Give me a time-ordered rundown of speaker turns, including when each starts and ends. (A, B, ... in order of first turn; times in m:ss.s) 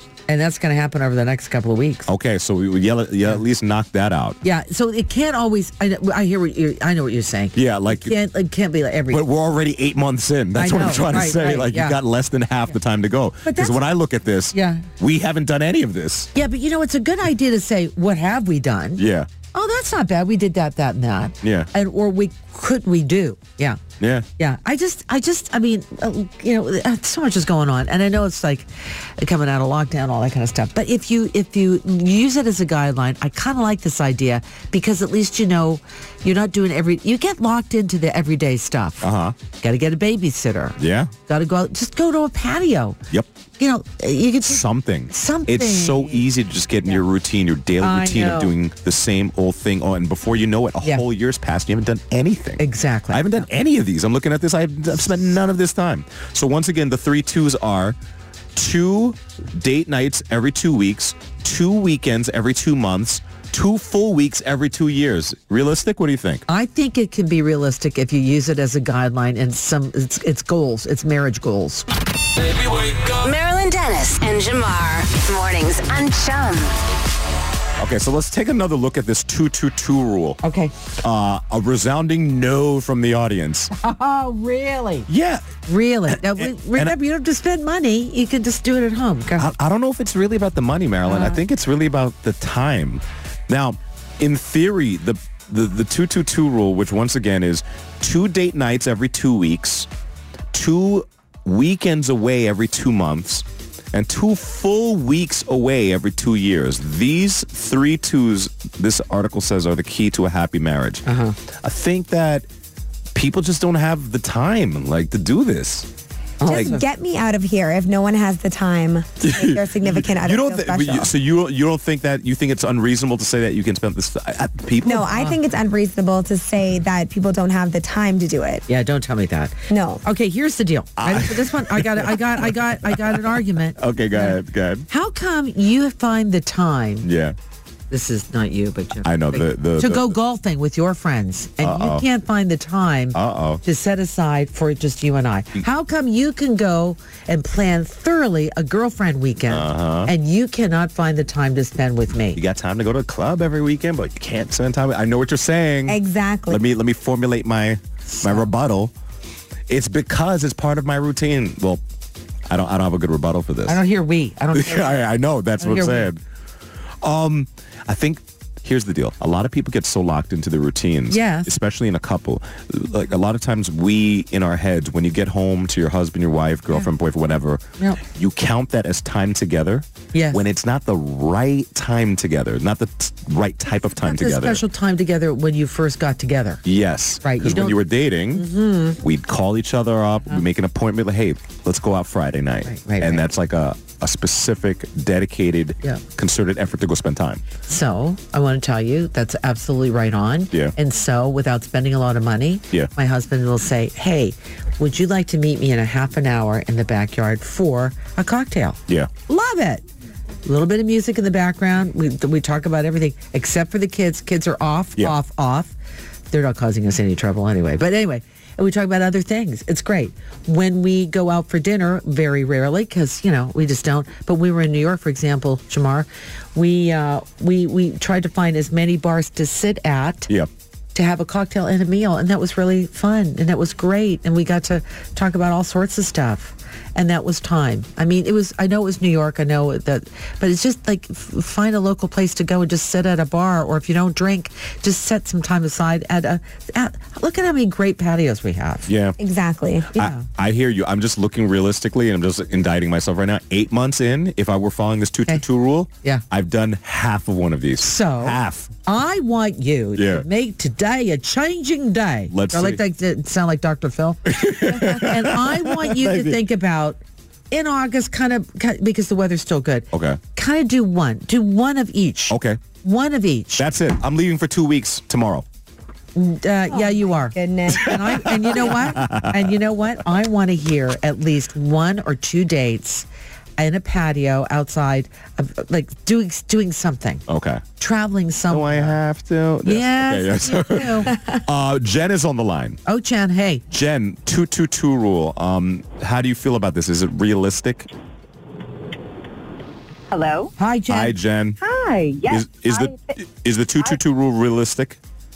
0:00.3-0:02.1 A
0:02.1-0:04.4 B
0:04.4-0:09.2 A
0:07.5-0:08.2 B
0:09.1-0:16.3 B
0:10.5-0:12.0 A
0:14.5-0:14.9 A
0:16.3-0:19.0 A
0:19.0-0:19.3 B
0:19.5-0:23.8 A
0:21.4-0:21.7 B
0:24.0-0:24.2 B
0:24.4-0:43.0 A
0:39.0-0:39.4 B
0:40.8-0:41.1 B
0:43.6-0:46.2 A
0:44.4-0:58.0 B
0:47.8-0:48.5 A
0:52.6-0:53.5 A
0:58.5-1:06.4 B
1:06.5-1:11.8 A
1:12.6-1:16.8 C
1:17.8-1:20.4 B
1:20.4-1:20.7 A
1:21.0-1:23.7 B
1:23.7-1:25.1 A
1:25.1-1:25.4 B
1:25.7-1:29.5 A
1:26.1-1:27.0 B
1:29.4-1:39.9 B
1:31.1-1:31.4 A
1:40.5-1:52.5 B
1:51.0-1:51.4 A
1:53.1-1:55.9 B
1:56.4-1:56.8 A
1:56.4-1:56.8 B
1:56.5-2:01.1 D
1:59.2-2:05.2 B
2:04.8-2:08.6 D
2:08.7-2:14.4 A
2:09.7-2:10.0 D
2:11.0-2:14.8 B
2:14.9-2:17.1 A
2:17.0-2:17.4 B
2:17.9-2:32.4 A
2:19.0-2:20.1 B
2:21.6-2:22.0 B
2:23.1-2:23.6 B
2:29.5-2:30.1 B
2:32.3-2:38.9 B
2:35.9-2:36.6 D
2:39.7-2:41.8 B
2:42.5-2:43.8 B
2:43.7-2:45.0 A
2:44.5-2:46.2 B
2:45.6-2:46.1 A
2:47.0-3:04.6 B
2:51.1-2:51.5 A
3:00.1-3:00.4 A
3:04.0-3:06.6 A
3:06.6-3:17.4 B
3:07.2-3:07.8 A
3:08.3-3:09.0 A
3:12.6-3:13.2 A
3:17.6-3:29.8 A
3:30.4-3:35.7 A
3:36.3-3:50.3 A
3:50.9-4:08.9 A
4:08.8-4:09.2 B
4:09.2-4:09.9 D
4:09.9-4:10.2 A
4:09.9-4:18.7 B
4:17.8-4:27.0 A
4:19.9-4:20.2 B
4:22.3-4:22.8 B
4:24.2-4:26.4 B
4:27.5-4:33.7 A
4:29.9-4:30.2 B
4:32.3-4:32.6 B
4:33.6-4:35.4 B
4:36.1-4:43.0 A
4:36.7-4:38.3 D
4:37.7-4:39.5 B
4:43.6-4:47.2 A
4:47.3-4:47.6 B
4:47.8-4:48.9 A
4:48.5-4:52.8 B
4:49.6-4:51.1 A
4:52.8-4:53.6 A
4:53.7-4:57.9 B
5:00.1-5:00.5 E
5:00.6-5:01.2 A
5:00.9-5:01.6 B
5:01.6-5:03.2 E
5:02.3-5:05.0 B